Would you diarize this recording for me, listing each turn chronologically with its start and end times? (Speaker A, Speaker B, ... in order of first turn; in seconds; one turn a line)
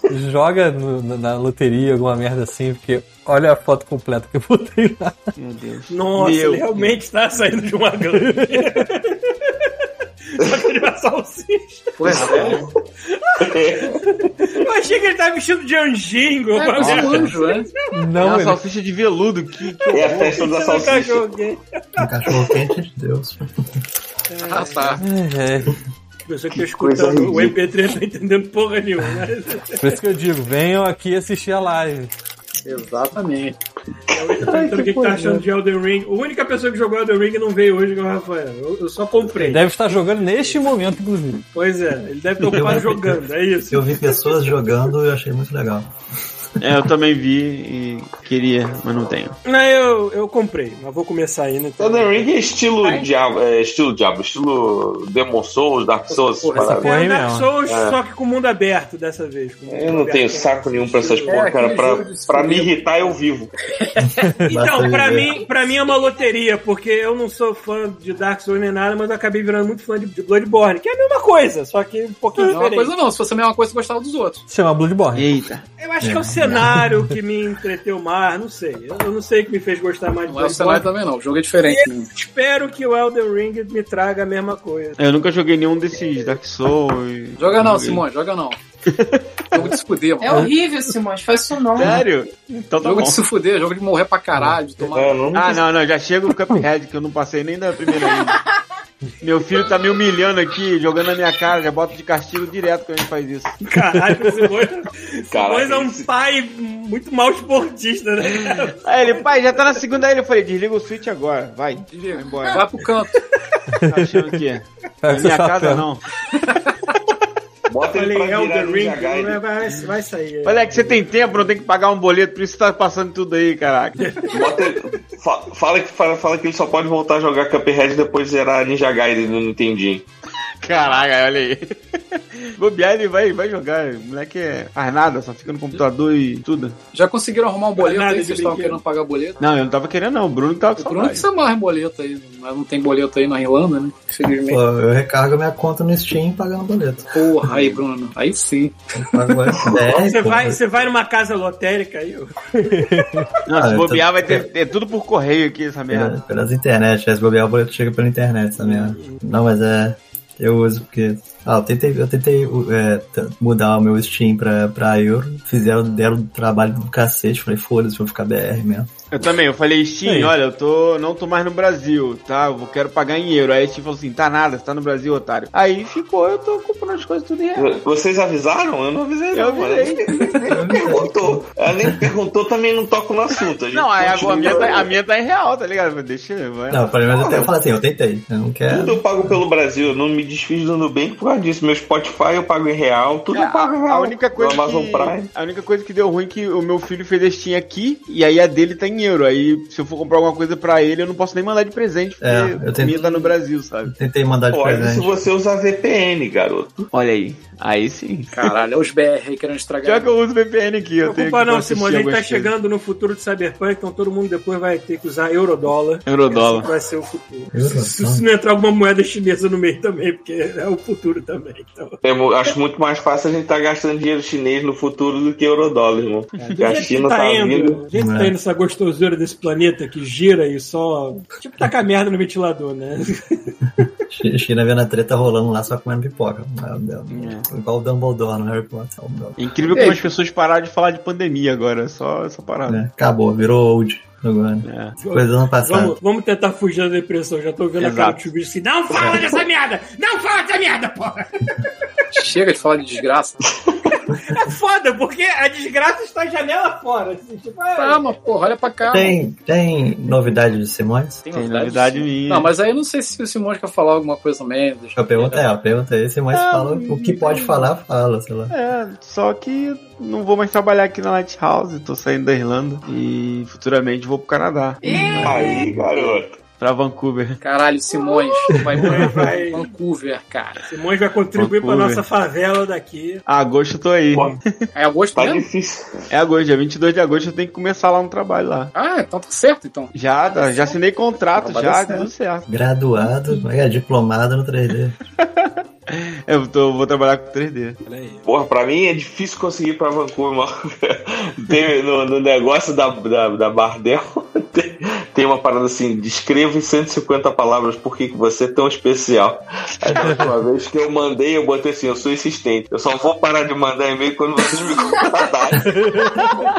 Speaker A: 0.1-5.2
Speaker B: 5.4-7.0
Speaker C: 5.9-9.7
Speaker A: 8.2-8.8
Speaker C: 10.3-12.5
Speaker D: 12.0-12.7
Speaker B: 12.1-12.7
Speaker C: 13.1-17.6
Speaker E: 13.4-14.0
Speaker D: 16.5-17.7
Speaker B: 16.8-17.3
Speaker A: 17.9-18.6
Speaker B: 18.2-20.4
Speaker C: 19.7-22.5
Speaker E: 19.9-21.2
Speaker F: 22.0-23.5
Speaker C: 24.3-25.0
Speaker D: 24.4-25.0
Speaker A: 25.0-25.8
Speaker C: 26.3-30.0
Speaker E: 26.6-27.6
Speaker A: 29.8-32.1
Speaker D: 32.6-33.6
Speaker C: 34.1-39.6
Speaker E: 34.5-35.1
Speaker A: 39.4-41.4
Speaker C: 41.5-44.2
Speaker F: 42.5-45.9
Speaker B: 46.6-49.4
Speaker C: 49.5-52.2
Speaker E: 51.8-56.9
Speaker D: 56.1-56.8
Speaker A: 56.6-57.5
Speaker C: 56.7-61.4
Speaker E: 57.7-58.0
Speaker E: 59.7-63.5
Speaker D: 61.2-62.7
Speaker D: 63.8-64.3
Speaker C: 64.5-72.9
Speaker F: 64.5-65.4
Speaker D: 72.4-74.5
Speaker A: 74.5-75.3
Speaker B: 75.1-75.6
Speaker C: 75.8-80.9
Speaker F: 76.0-77.1
Speaker D: 80.3-82.1
Speaker C: 81.6-85.0
Speaker B: 85.0-88.0
Speaker D: 87.4-88.6
Speaker B: 88.9-89.7
Speaker D: 89.5-90.6
Speaker G: 90.2-92.0
Speaker B: 91.8-93.2
Speaker D: 92.8-95.6
Speaker E: 94.9-95.6
Speaker B: 95.3-98.4
Speaker G: 98.0-98.4
Speaker B: 99.2-103.6
Speaker C: 103.7-109.2
Speaker A: 103.9-104.5
Speaker E: 105.3-106.1
Speaker B: 108.8-112.6
Speaker D: 111.9-113.2
Speaker A: 113.8-114.3
Speaker B: 113.8-116.0
Speaker A: 115.0-115.9
Speaker E: 117.7-119.4
Speaker C: 117.9-121.0
Speaker B: 120.5-124.1
Speaker C: 124.0-124.6
Speaker E: 124.3-130.1
Speaker B: 130.6-136.8
Speaker D: 136.9-139.4
Speaker C: 137.8-138.8
Speaker B: 139.4-141.3
Speaker D: 140.8-144.6
Speaker F: 144.5-147.6
Speaker D: 147.1-148.8
Speaker F: 148.9-150.6
Speaker C: 149.9-153.2
Speaker A: 152.6-153.3
Speaker B: 153.5-156.2
Speaker F: 153.5-154.5
Speaker F: 155.9-168.9
Speaker C: 158.6-159.2
Speaker B: 169.1-177.8
Speaker A: 170.1-170.4
Speaker E: 177.6-184.9
Speaker B: 179.3-180.2
Speaker F: 180.5-182.1
Speaker B: 183.7-186.9
Speaker F: 186.7-189.4
Speaker E: 187.1-187.5
Speaker E: 188.7-195.3
Speaker B: 193.3-203.9
Speaker F: 202.2-203.1
Speaker D: 202.9-203.3
Speaker F: 203.8-205.3
Speaker E: 204.5-206.9
Speaker B: 206.9-208.3
Speaker D: 208.3-210.1
Speaker B: 209.8-212.5
Speaker C: 211.0-222.0
Speaker B: 216.1-216.7
Speaker F: 217.5-218.3
Speaker E: 222.0-227.8
Speaker C: 226.4-233.9
Speaker F: 227.9-228.3
Speaker F: 234.1-239.4
Speaker B: 237.1-237.5
Speaker B: 239.4-242.8
Speaker D: 239.7-240.1
Speaker F: 242.7-246.0
Speaker B: 244.6-245.0
Speaker C: 245.0-251.7
Speaker B: 247.8-248.2
Speaker F: 249.0-249.3
Speaker D: 252.1-253.4
Speaker C: 254.3-258.1
Speaker D: 257.8-259.2
Speaker F: 258.9-261.2
Speaker D: 261.2-265.5
Speaker B: 261.3-262.5
Speaker F: 265.0-268.5
Speaker B: 266.3-267.7
Speaker B: 268.5-277.4
Speaker G: 274.8-275.7
Speaker F: 275.2-275.8
Speaker E: 275.2-276.4
Speaker D: 277.4-280.6
Speaker C: 278.8-279.7
Speaker C: 280.7-283.2
Speaker B: 281.4-282.0
Speaker B: 283.3-284.3
Speaker E: 284.1-284.4
Speaker D: 284.7-285.5
Speaker E: 285.1-286.1
Speaker B: 286.1-288.7
Speaker D: 288.7-290.7
Speaker B: 289.9-292.5
Speaker D: 291.3-292.1
Speaker F: 292.5-295.0
Speaker B: 295.2-297.8
Speaker C: 297.9-298.3
Speaker E: 298.2-315.8
Speaker A: 310.0-310.2
Speaker A: 315.6-316.3